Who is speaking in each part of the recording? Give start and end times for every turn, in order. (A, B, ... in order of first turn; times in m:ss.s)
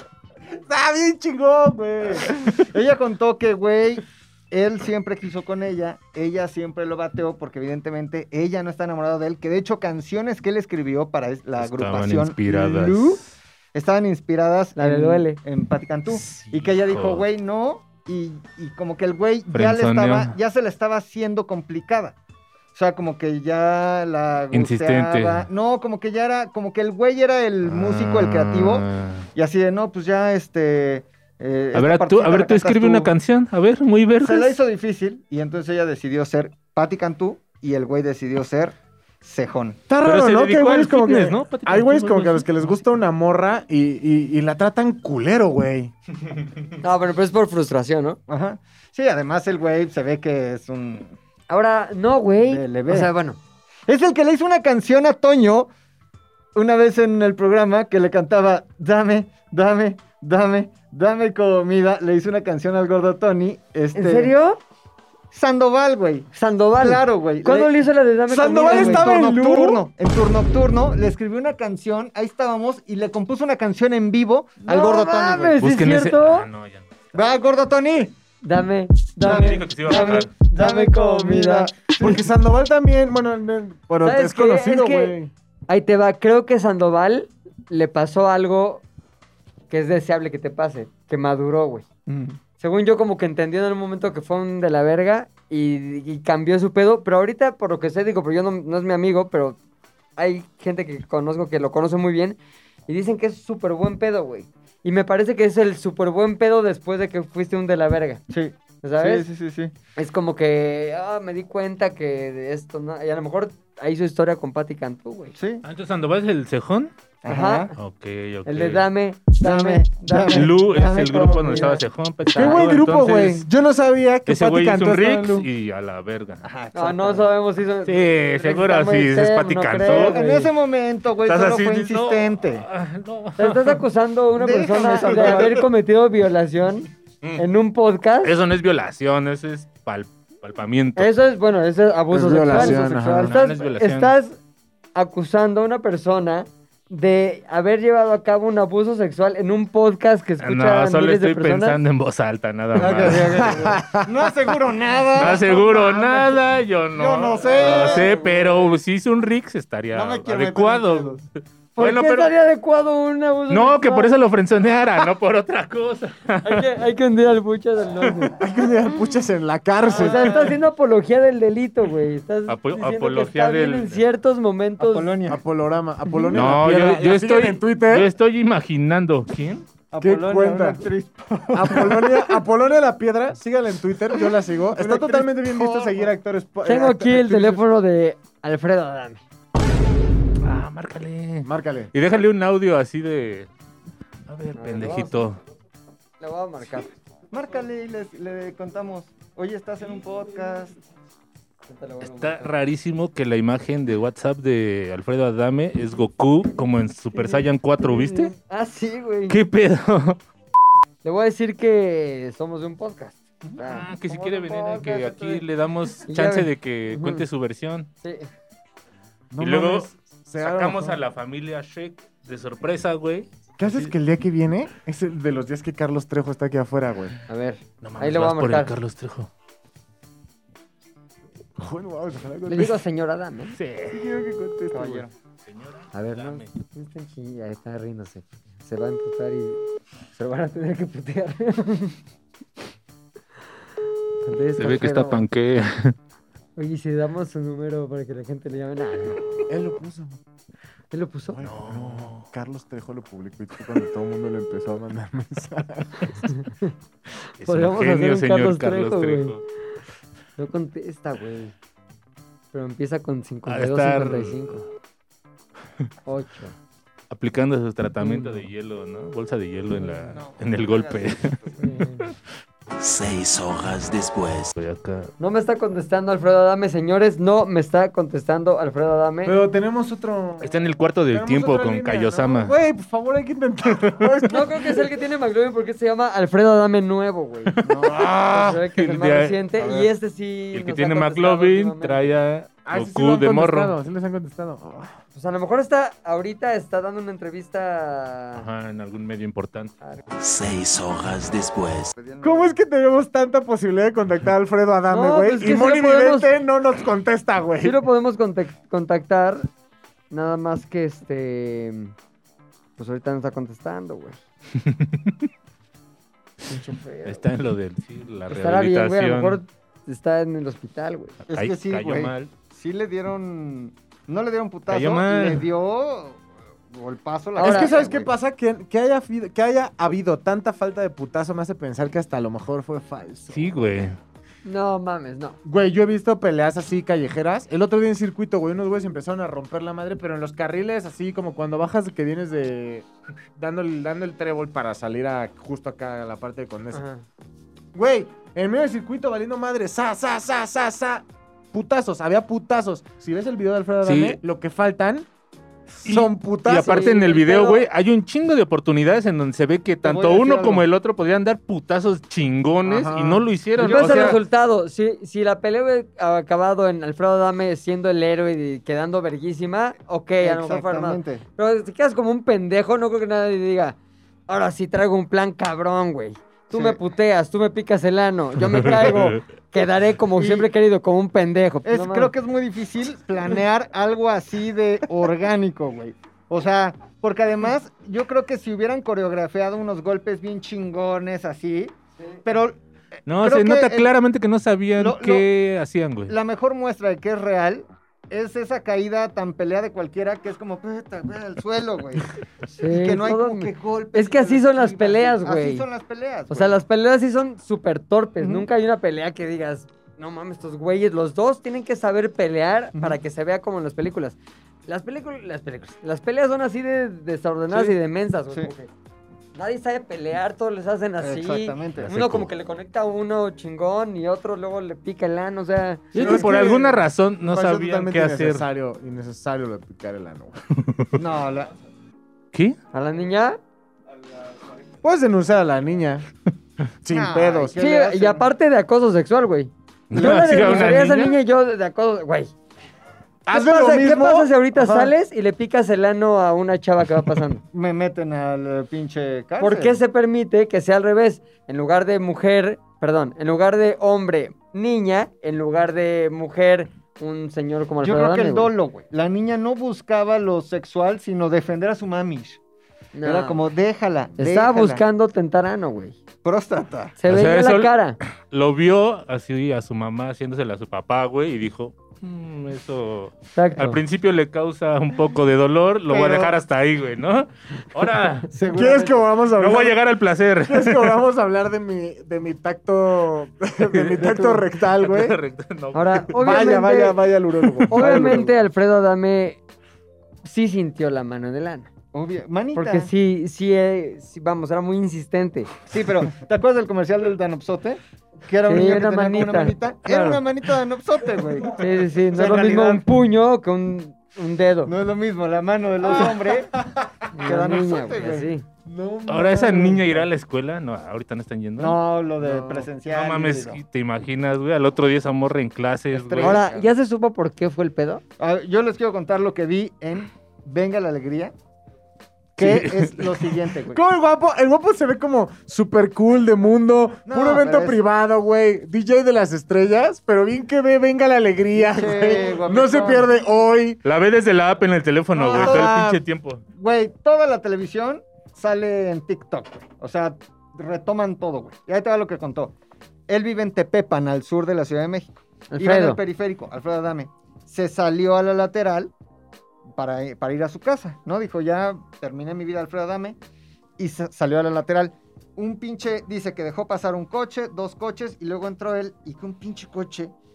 0:00.6-0:02.5 A
0:02.2-0:13.2 B
0:11.6-0:13.2 C
0:13.7-0:22.2 B
0:14.8-0:15.4 D
0:16.1-0:17.2 C
0:19.5-0:20.4 C
0:22.8-0:33.1 B
0:24.5-0:25.5 C
0:27.6-0:29.3 C
0:31.7-0:34.6 C
0:34.2-0:39.8 B
0:39.9-0:45.9 A
0:40.0-0:42.8 C
0:46.8-0:48.2 D
0:48.3-0:51.2 B
0:51.5-0:53.4 D
0:52.4-0:53.1 B
0:53.9-0:55.7 B
0:56.6-1:04.3 B
1:03.9-1:04.6 D
1:05.3-1:06.3 B
1:06.3-1:09.2 D
1:06.8-1:07.7 B
1:08.3-1:09.8 A
1:08.5-1:15.6 B
1:14.6-1:16.5 D
1:15.6-1:17.2 C
1:17.2-1:18.2 B
1:18.4-1:21.7 D
1:19.2-1:20.3 C
1:19.2-1:22.2 B
1:22.0-1:25.3 A
1:24.0-1:25.2 D
1:25.7-1:28.8 D
1:29.7-1:31.8 D
1:32.1-1:32.4 B
1:32.6-1:39.6 D
1:40.2-1:48.2 D
1:48.3-1:49.8 B
1:48.8-1:49.3 D
1:50.0-1:55.4 D
1:55.4-1:55.6 B
1:55.6-1:56.9 C
1:57.2-1:57.7 B
1:57.3-1:57.7 D
1:57.8-1:58.8 C
1:58.4-2:01.8 D
1:59.4-2:01.8 B
2:00.3-2:03.5 C
2:02.3-2:05.5 A
2:02.4-2:02.6 D
2:04.3-2:06.5 C
2:06.4-2:07.3 B
2:06.7-2:10.5 D
2:07.9-2:10.2 C
2:09.8-2:12.6 B
2:11.2-2:13.8 C
2:13.4-2:18.3 D
2:14.4-2:15.7 B
2:18.2-2:21.1 C
2:21.0-2:24.4 D
2:22.1-2:23.4 A
2:23.2-2:24.1 C
2:25.0-2:31.8 D
2:30.4-2:33.7 C
2:32.7-2:38.7 B
2:33.3-2:34.1 A
2:35.2-2:42.3 C
2:37.5-2:38.6 D
2:39.9-2:41.2 B
2:41.8-2:44.1 D
2:43.5-2:46.7 C
2:46.4-2:48.4 D
2:48.4-2:50.3 A
2:49.9-2:50.5 B
2:49.9-2:55.1 D
2:52.5-2:54.0 C
2:54.8-2:55.4 B
2:55.3-2:58.1 A
2:56.3-2:59.7 C
2:59.9-3:02.4 B
3:00.0-3:00.9 A
3:01.5-3:07.6 A
3:04.8-3:06.1 B
3:06.6-3:09.2 D
3:10.4-3:13.5 C
3:11.4-3:11.9 A
3:14.3-3:15.4 C
3:14.6-3:15.3 D
3:16.2-3:16.9 D
3:17.3-3:20.8 B
3:21.7-3:22.5 D
3:22.0-3:28.3 C
3:27.1-3:29.4 D
3:29.3-3:30.2 C
3:31.0-3:35.4 D
3:33.4-3:33.8 B
3:33.6-3:37.9 C
3:36.0-3:37.2 D
3:38.0-3:38.3 D
3:39.3-3:41.0 A
3:39.4-3:39.9 C
3:40.4-3:43.3 C
3:43.6-3:47.1 A
3:47.3-3:48.7 D
3:47.8-3:49.3 C
3:51.6-3:52.8 A
3:52.5-3:53.6 D
3:53.6-3:54.0 C
3:53.9-3:55.0 A
3:54.7-3:55.1 B
3:55.4-3:56.5 C
3:55.9-3:59.6 D
4:00.1-4:02.0 D
4:04.2-4:05.2 D
4:04.6-4:06.0 C
4:06.6-4:09.2 D
4:09.5-4:10.2 A
4:10.9-4:11.4 D
4:11.4-4:16.3 A
4:11.4-4:12.3 C
4:16.3-4:16.7 D
4:17.4-4:19.4 C
4:17.4-4:19.4 D
4:20.4-4:21.5 D
4:22.5-4:24.6 D
4:23.5-4:24.6 C
4:26.1-4:26.5 D
4:27.1-4:31.4 C
4:28.0-4:28.5 D
4:29.7-4:30.2 D
4:30.1-4:31.7 B
4:31.6-4:32.1 D
4:32.8-4:34.6 E
4:34.6-4:35.1 C
4:35.2-4:39.4 D
4:39.2-4:40.6 A
4:40.4-4:42.5 C
4:41.1-4:44.8 A
4:43.7-4:44.3 C
4:44.3-4:47.6 D
4:47.5-4:49.4 C
4:47.6-4:48.1 B
4:48.3-4:52.1 D
4:49.6-4:49.9 B
4:50.5-4:53.8 C
4:52.7-4:55.0 A
4:55.1-4:58.4 D
4:58.4-4:59.7 C
5:00.2-5:01.9 E
5:02.0-5:02.6 B
5:02.2-5:07.8 A
5:04.9-5:06.3 D
5:07.6-5:09.5 D
5:10.1-5:11.9 D
5:12.8-5:14.2 D
5:14.6-5:15.1 C
5:16.5-5:17.3 D
5:17.0-5:19.4 C
5:18.3-5:21.2 D
5:21.3-5:22.3 C
5:21.3-5:28.1 B
5:24.7-5:25.5 C
5:27.4-5:27.7 D
5:27.4-5:33.6 A
5:33.3-5:34.0 C
5:34.4-5:35.4 D
5:35.4-5:46.8 A
5:46.7-5:47.0 D
5:47.7-5:55.1 A
5:53.8-5:54.2 C
5:55.8-5:56.9 A
5:55.8-6:04.2 C
5:56.5-5:57.6 D
5:59.8-6:00.7 B
6:02.6-6:03.3 A
6:03.6-6:13.8 D
6:03.6-6:04.2 B
6:10.2-6:11.2 B
6:14.3-6:22.1 D
6:16.5-6:16.8 B
6:20.2-6:20.5 B
6:21.6-6:32.6 B
6:33.1-6:36.2 C
6:33.2-6:33.9 B
6:34.8-6:35.3 B
6:36.1-6:46.6 B
6:42.5-6:45.7 D
6:46.3-6:58.7 D
6:48.2-6:48.5 B
6:59.4-7:06.2 D
7:01.0-7:01.9 B
7:01.8-7:02.3 C
7:05.9-7:08.5 C
7:05.9-7:10.4 A
7:10.6-7:10.9 C
7:11.0-7:11.6 B
7:12.7-7:13.4 D
7:14.8-7:16.1 A
7:16.8-7:17.6 A
7:16.9-7:18.3 B
7:17.6-7:22.3 D
7:19.9-7:21.2 C
7:20.0-7:21.1 B
7:23.3-7:24.4 A
7:23.3-7:27.4 D
7:24.6-7:24.9 B
7:27.5-7:29.8 B
7:29.4-7:38.5 D
7:37.8-7:42.4 B
7:43.0-7:43.4 D
7:43.0-7:44.8 B
7:44.2-7:46.0 D
7:46.2-7:47.0 B
7:47.0-7:48.0 D
7:47.1-7:58.3 C
7:53.4-7:53.8 D
7:55.9-7:56.3 B
7:58.3-7:59.0 B
7:58.4-7:59.8 A
7:59.3-8:01.0 C
8:00.4-8:05.2 A
8:03.7-8:06.4 C
8:05.7-8:07.0 D
8:06.2-8:08.4 A
8:07.7-8:09.4 D
8:10.2-8:11.7 D
8:11.9-8:12.9 B
8:12.6-8:15.5 D
8:15.7-8:22.8 B
8:18.4-8:20.2 D
8:21.6-8:24.7 D
8:24.6-8:26.5 B
8:25.9-8:26.3 A
8:27.1-8:28.4 D
8:27.2-8:28.3 B
8:28.7-8:30.1 A
8:29.1-8:31.8 C
8:31.6-8:33.6 B
8:32.2-8:32.7 A
8:32.9-8:36.4 C
8:35.9-8:36.7 B
8:36.2-8:38.0 D
8:38.2-8:41.3 B
8:42.4-8:43.4 C
8:42.4-8:43.8 B
8:43.7-8:53.8 A
8:47.1-8:47.8 B
8:51.5-8:53.1 B
8:53.8-8:56.4 C
8:55.2-8:56.0 B
8:55.3-8:56.0 A
8:56.6-9:02.6 B
9:03.1-9:08.9 B
9:05.5-9:06.0 D
9:09.8-9:13.2 B
9:13.8-9:20.1 B